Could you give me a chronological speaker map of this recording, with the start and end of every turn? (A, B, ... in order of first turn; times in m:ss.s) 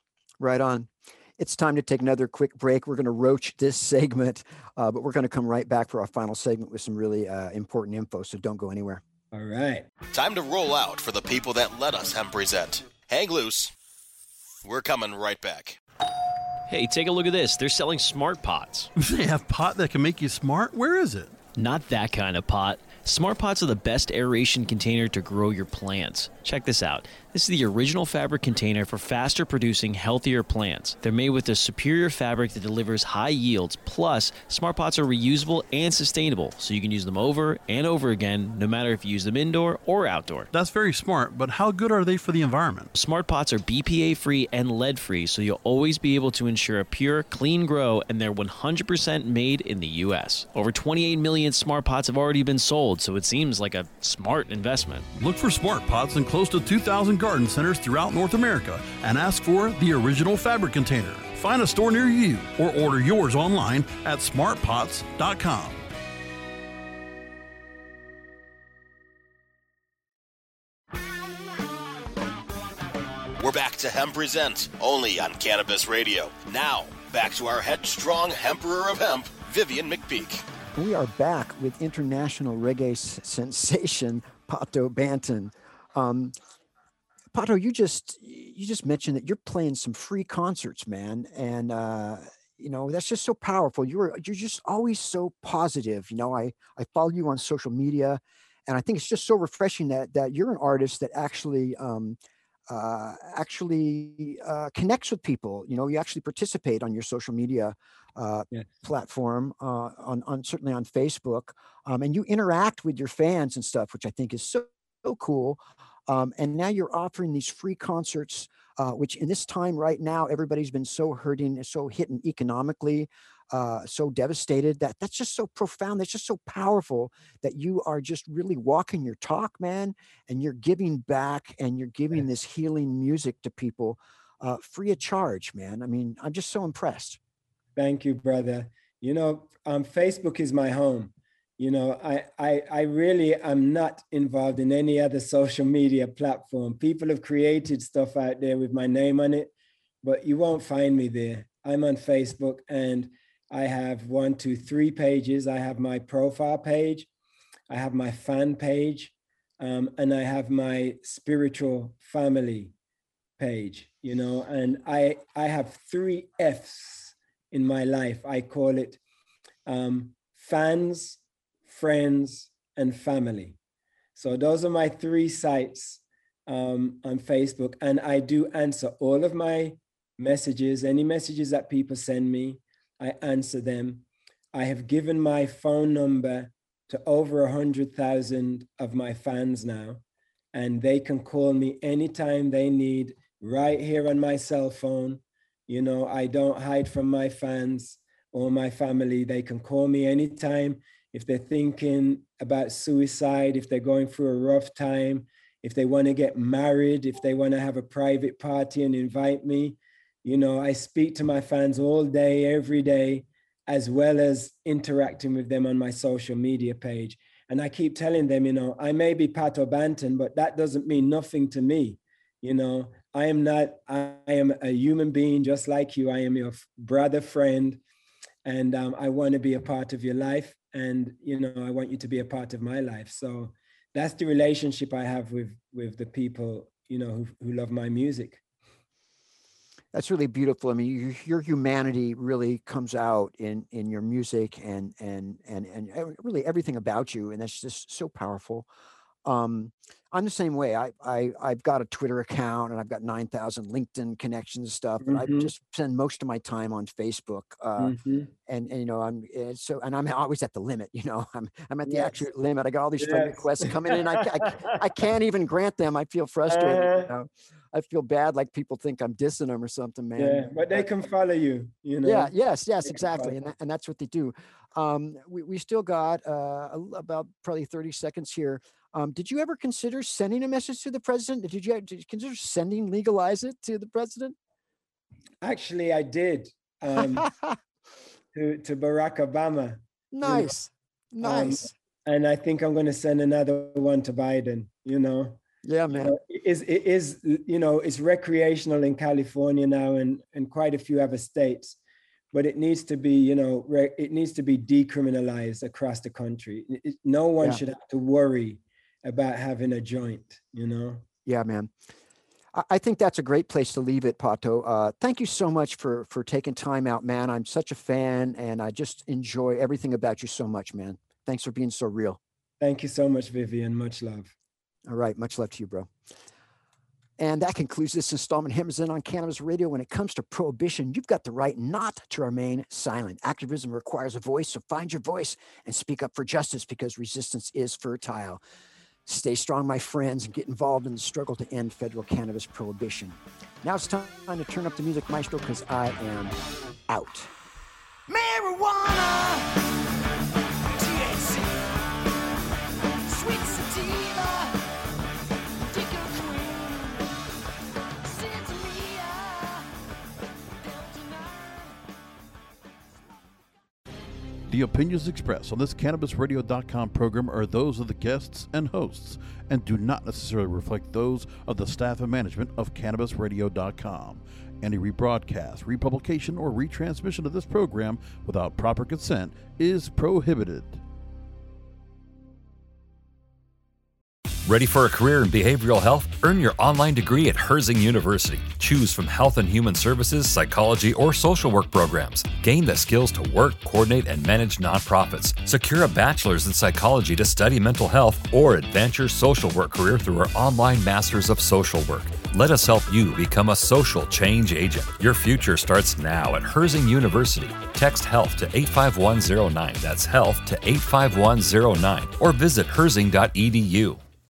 0:00.4-0:09.0 A
0:09.3-0:09.8 B
0:10.1-0:13.7 C
0:14.6-0:15.8 C
0:16.7-0:18.9 D
0:19.0-0:21.4 E
0:21.6-0:40.5 D
0:40.5-0:42.9 E
0:42.9-0:55.1 D
0:55.1-1:05.8 E
1:13.4-1:20.4 C
1:20.8-1:26.3 A
1:27.3-1:42.2 A
1:42.7-2:17.2 A
2:17.8-2:29.5 B
2:30.0-2:37.1 B
2:37.7-2:42.7 B
2:43.4-2:49.0 B
2:49.7-2:53.6 B
2:54.2-3:10.0 B
3:10.5-3:47.8 B
3:48.4-3:58.4 B
3:59.9-4:08.7 A
4:09.2-4:30.9 A
4:15.0-4:15.5 B
4:17.8-4:18.3 B
4:21.9-4:22.2 B
4:23.0-4:24.7 B
4:26.5-4:27.1 B
4:30.2-4:32.3 B
4:32.0-4:44.4 A
4:32.8-4:33.4 B
4:45.4-4:47.3 B
4:47.0-4:47.6 A
4:48.3-4:50.6 B
4:50.1-4:51.7 A
4:51.2-4:55.4 B
4:55.6-4:56.2 A
4:56.0-5:01.8 B
5:02.3-5:11.0 B
5:11.3-5:11.7 A
5:12.5-5:22.2 A
5:22.6-5:24.3 B
5:24.9-5:25.9 A
5:27.2-5:38.4 A
5:39.1-5:46.4 A
5:46.9-5:47.3 A
5:48.1-5:49.6 A
5:50.8-5:51.6 A
5:53.1-5:54.5 A
5:55.7-5:56.8 A
5:58.2-5:59.6 A
6:04.5-6:20.8 E
6:24.4-6:54.0 F